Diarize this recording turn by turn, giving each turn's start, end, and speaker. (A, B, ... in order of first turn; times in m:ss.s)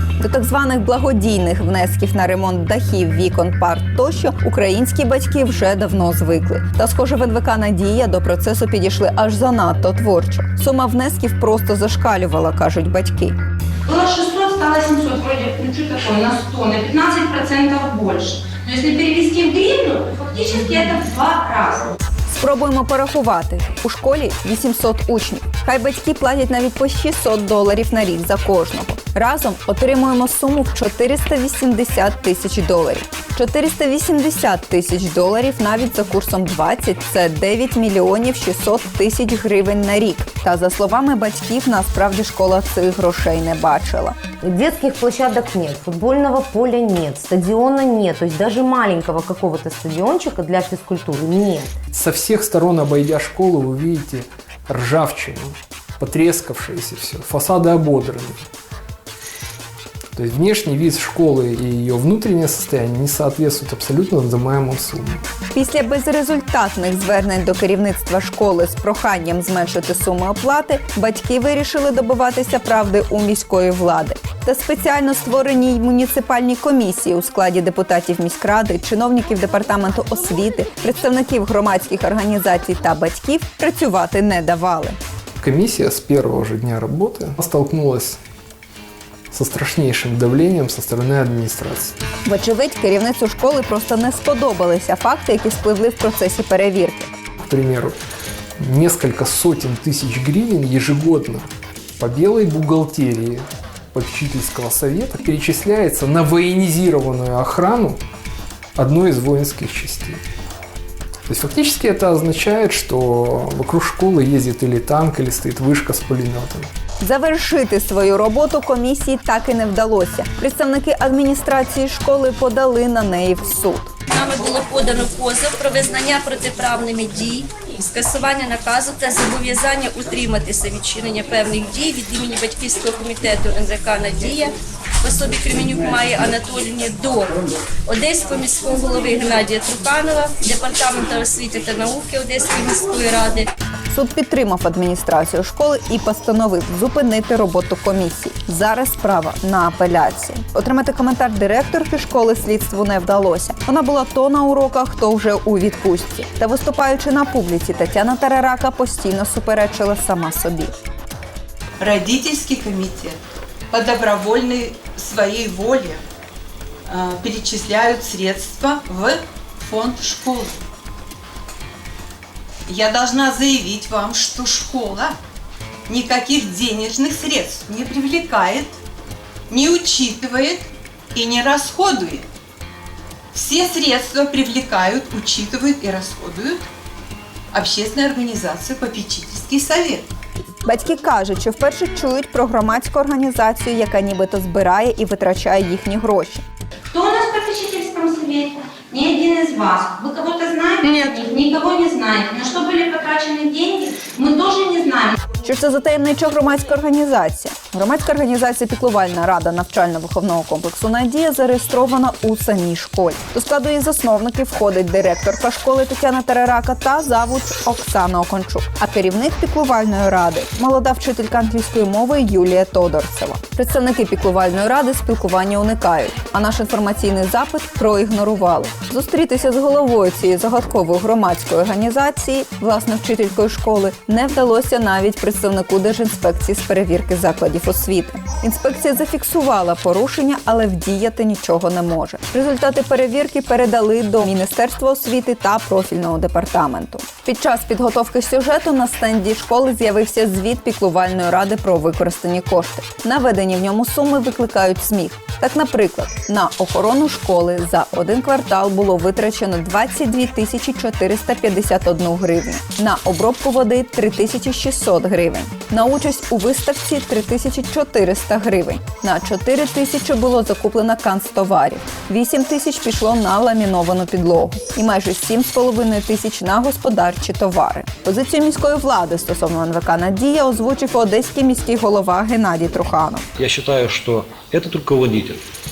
0:00.2-0:13.4 A
0:13.9-0:22.0 B
0:22.3-0:44.2 A
0:44.4-0:51.8 C
0:51.9-0:58.4 D
1:00.2-1:05.2 D
1:05.5-1:25.0 A
1:25.4-1:28.2 D
1:29.3-1:32.0 D
1:32.2-1:37.1 A
1:37.4-1:38.0 D
1:38.6-1:41.5 D
1:42.0-1:48.0 D
1:48.8-1:50.2 D
1:51.3-1:56.7 D
1:57.0-2:03.9 A
2:04.1-2:17.3 E
2:17.9-2:23.5 E
2:23.9-2:40.7 A
2:41.8-2:43.2 F
2:43.7-2:46.0 F
2:46.9-2:50.6 F
2:52.7-2:55.2 F
2:55.9-2:58.8 F
2:59.5-3:02.3 F
3:03.3-3:06.7 F
3:07.5-3:10.1 F
3:10.6-3:16.4 A
3:16.9-3:25.2 B
3:25.4-4:43.3 A
4:43.4-4:45.4 G